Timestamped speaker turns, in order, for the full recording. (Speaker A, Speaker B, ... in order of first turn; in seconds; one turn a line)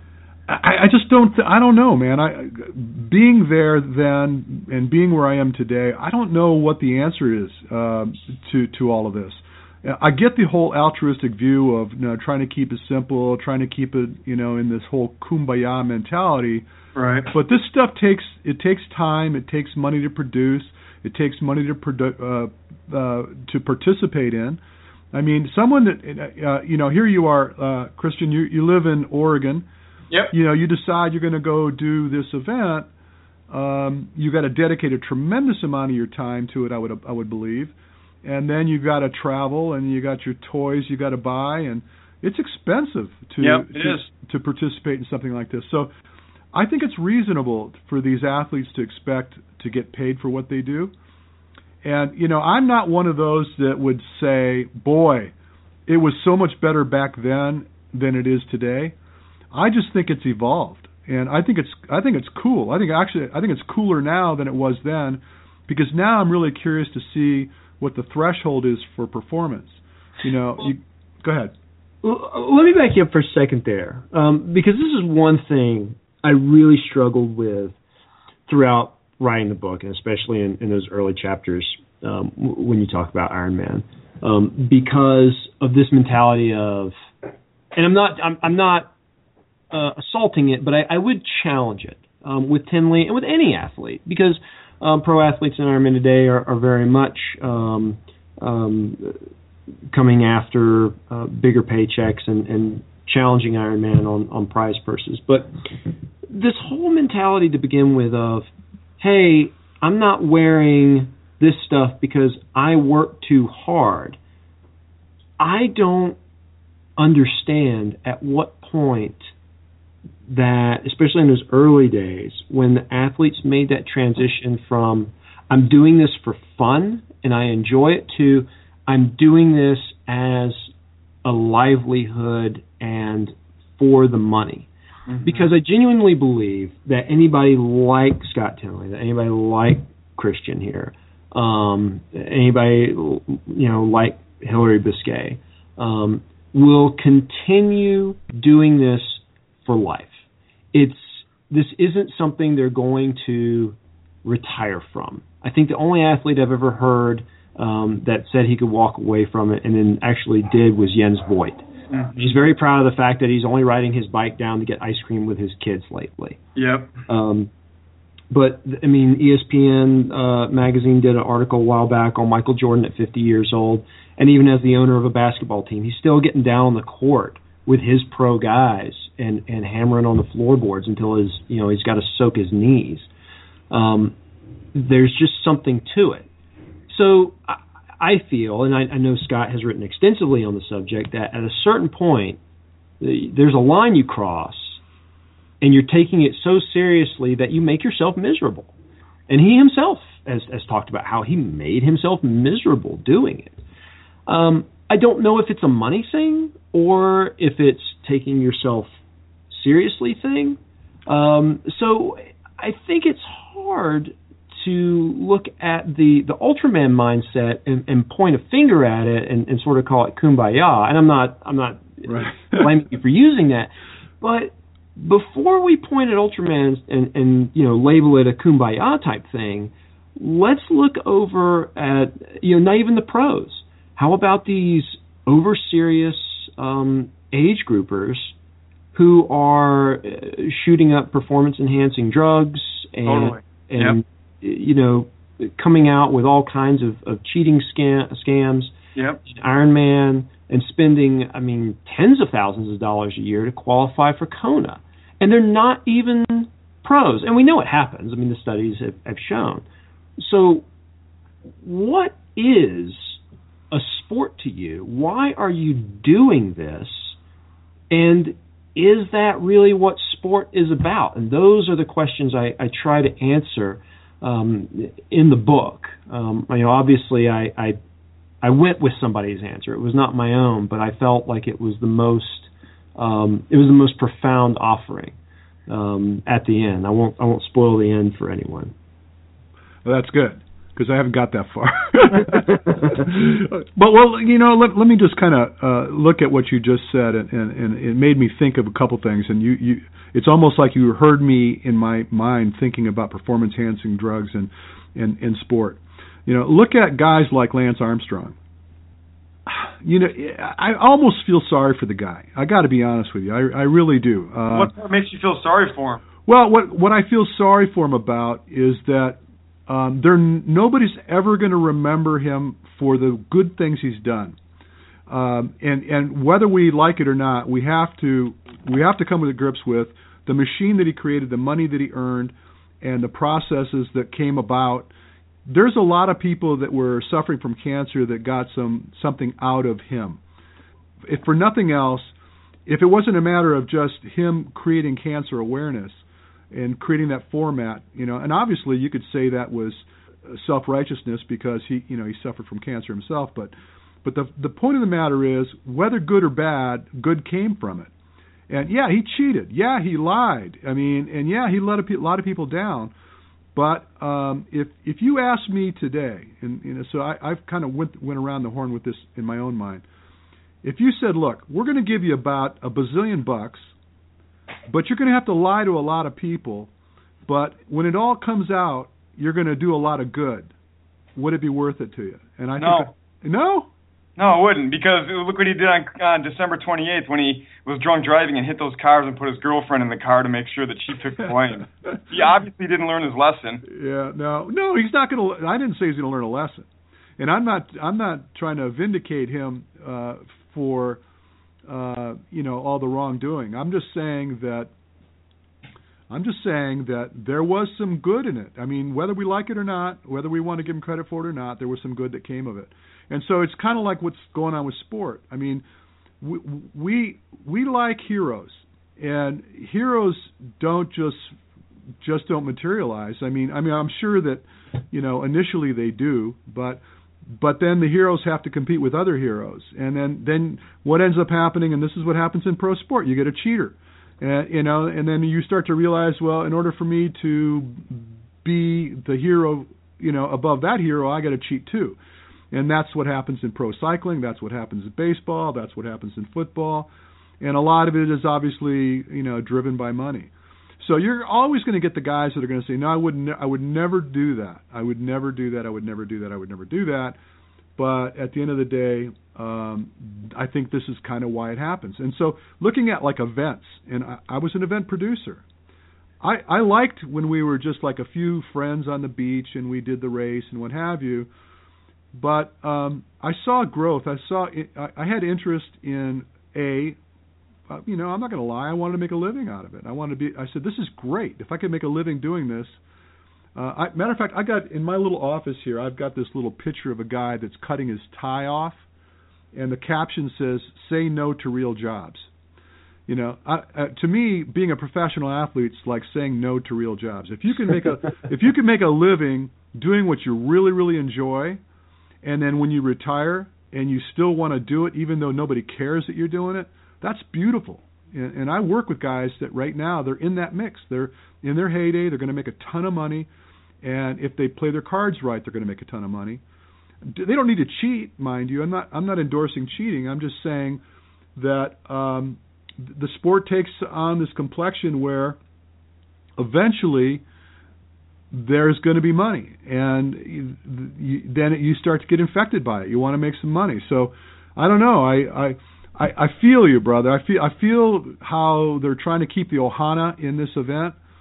Speaker A: 0.5-16.7
Speaker B: 16.9-17.3
Speaker A: 17.3-24.6
Speaker A: 25.1-29.7
Speaker A: 30.3-32.9
Speaker A: 33.5-45.9
Speaker B: 43.4-44.1
Speaker A: 46.5-50.9
Speaker A: 51.8-55.3
Speaker A: 55.9-59.0
Speaker A: 59.5-71.5
Speaker C: 72.0-77.8
Speaker C: 78.5-87.0
Speaker C: 87.8-88.9
Speaker C: 89.7-99.2
Speaker C: 99.9-105.5
Speaker C: 106.3-108.5
Speaker C: 109.0-114.2
Speaker C: 115.4-116.2
Speaker C: 117.0-119.3
Speaker C: 120.3-130.7
Speaker C: 131.2-134.7
Speaker B: 135.1-135.5
Speaker C: 135.2-161.6
Speaker B: 161.9-162.2
Speaker C: 162.2-166.4
Speaker B: 166.6-167.0
Speaker C: 167.1-167.5
Speaker C: 168.3-183.1
Speaker C: 183.7-184.2
Speaker C: 184.7-186.3
Speaker C: 186.9-192.4
Speaker C: 193.0-194.8
Speaker C: 195.6-198.7
Speaker C: 199.3-203.6
Speaker C: 204.3-208.9
Speaker C: 209.5-238.3
Speaker A: 222.1-222.7
Speaker C: 238.9-248.7
Speaker B: 243.1-244.0
Speaker B: 249.0-249.2
Speaker C: 249.3-259.6
Speaker C: 260.2-260.6
Speaker C: 261.6-263.2
Speaker C: 263.7-267.2
Speaker C: 267.9-277.8
Speaker C: 278.4-285.2
Speaker C: 285.7-288.7
Speaker A: 289.8-308.4
Speaker A: 309.5-314.7
Speaker B: 314.5-316.0
Speaker A: 316.3-324.4
Speaker A: 325.1-334.9
Speaker A: 335.5-340.2
Speaker A: 341.1-342.1
Speaker A: 342.7-357.9
Speaker A: 358.5-362.9
Speaker A: 363.6-369.8
Speaker A: 370.6-373.7
Speaker A: 374.7-376.7
Speaker A: 377.3-380.5
Speaker A: 381.2-383.7
Speaker B: 382.6-382.9
Speaker B: 384.2-393.6
Speaker A: 393.7-396.7
Speaker A: 397.2-401.0
Speaker A: 401.7-404.7
Speaker A: 406.1-415.6
Speaker A: 416.2-421.4
Speaker A: 422.0-442.0
Speaker A: 442.5-446.9
Speaker A: 447.4-457.2
Speaker A: 457.8-465.4
Speaker A: 466.2-471.3
Speaker A: 472.1-477.0
Speaker A: 477.7-482.8
Speaker A: 483.6-488.8
Speaker A: 489.5-492.3
Speaker A: 493.1-501.6
Speaker A: 502.2-513.3
Speaker A: 513.8-516.4
Speaker A: 517.0-520.8
Speaker A: 521.4-525.4
Speaker A: 526.4-527.2
Speaker A: 528.3-541.0